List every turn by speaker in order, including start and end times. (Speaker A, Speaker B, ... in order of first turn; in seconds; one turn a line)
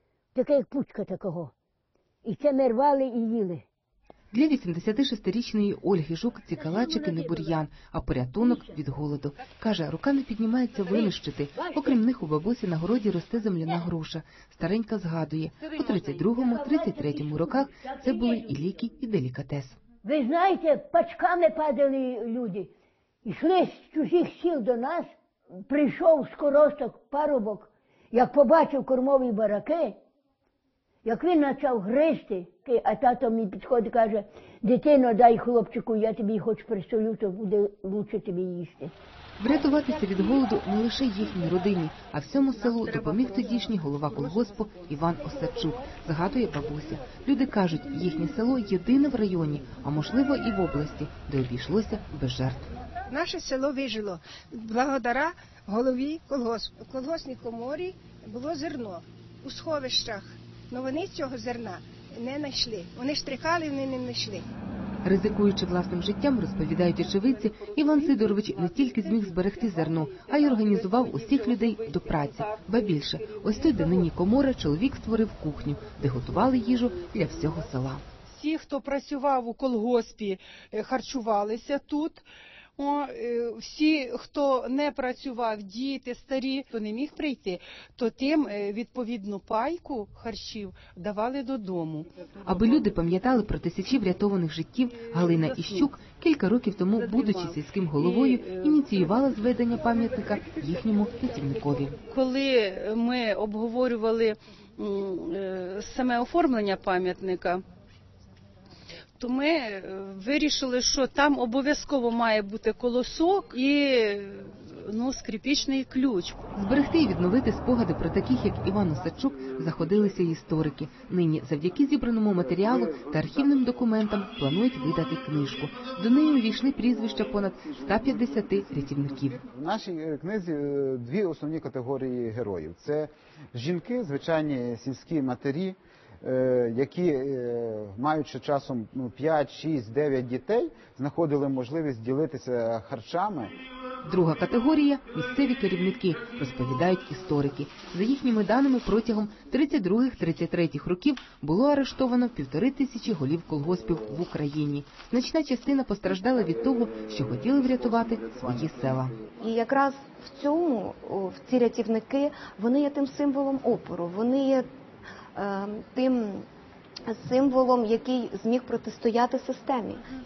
Speaker A: 0.3-1.5
Speaker A: 2.2-3.6
Speaker B: 4.3-19.8
Speaker A: 6.8-7.4
Speaker A: 16.1-18.5
Speaker A: 20.0-22.7
Speaker A: 23.2-25.1
Speaker A: 25.7-30.0
Speaker A: 31.0-38.9
Speaker B: 39.4-52.7
Speaker C: 53.1-64.5
Speaker B: 65.0-78.0
Speaker D: 68.1-69.2
Speaker D: 69.7-73.9
Speaker D: 78.3-82.2
Speaker D: 82.8-92.1
Speaker B: 92.4-102.0
Speaker D: 95.2-95.9
Speaker D: 97.0-98.8
Speaker D: 102.0-107.6
Speaker D: 109.2-116.4
Speaker B: 116.5-129.4
Speaker E: 129.4-143.5
Speaker B: 144.0-159.2
Speaker F: 159.3-164.7
Speaker F: 165.3-166.5
Speaker F: 167.1-170.0